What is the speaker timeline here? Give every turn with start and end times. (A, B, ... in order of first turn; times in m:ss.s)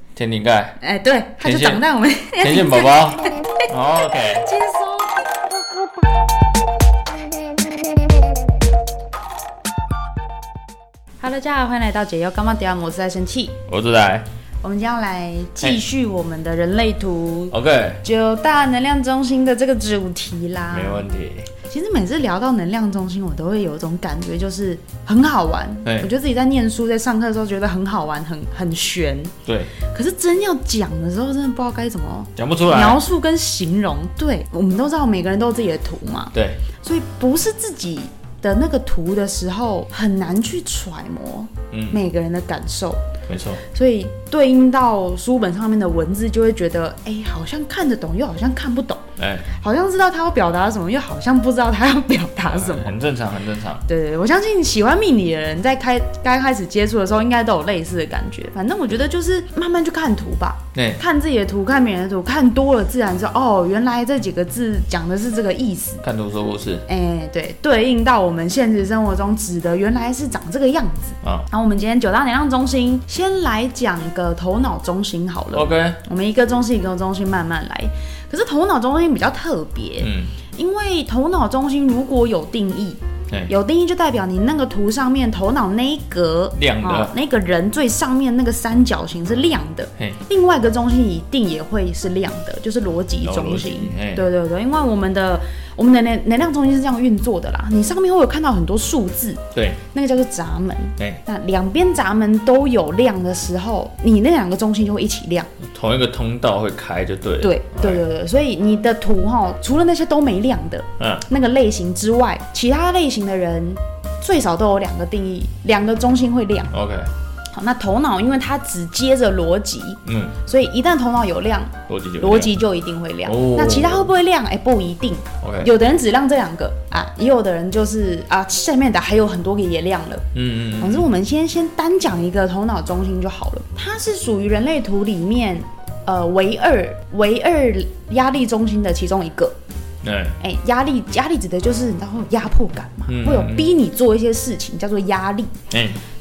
0:00.2-0:00.8 A
0:00.8-0:03.6 B
0:01.4-0:01.8 A
0:02.4-0:04.5 A
0:04.3-0:05.9 B
0:11.2-0:13.6 B
0:13.7-0:14.3 A
0:14.6-0:21.0 B
0:17.5-0:18.0 A
0:20.7-0:21.5 A
0:21.6-0:43.0 B
0:25.8-0:26.1 A
0:29.5-0:29.7 A
0:32.4-0:33.0 A
0:36.3-0:36.6 A
0:41.7-0:42.0 A
0:43.3-0:43.6 A
0:43.6-0:53.0 B
0:49.2-0:49.5 A
0:52.5-0:53.8 A
0:53.9-1:06.0 B
1:00.8-1:01.0 A
1:06.0-1:06.9 A
1:06.9-1:45.5 B
1:11.2-1:11.5 A
1:15.5-1:16.0 A
1:20.0-1:20.4 A
1:26.6-1:27.1 A
1:33.2-1:34.3 A
1:39.5-1:39.8 A
1:45.6-1:48.0 A
1:47.4-1:56.7 B
1:51.0-1:51.3 A
1:56.7-1:57.1 A
1:57.5-2:10.3 B
2:00.0-2:00.4 A
2:01.9-2:02.6 A
2:03.2-2:04.1 A
2:05.4-2:05.7 A
2:10.3-2:11.1 A
2:10.8-2:19.6 B
2:20.0-2:20.4 A
2:20.4-2:25.5 B
2:23.1-2:23.7 A
2:25.7-2:26.0 A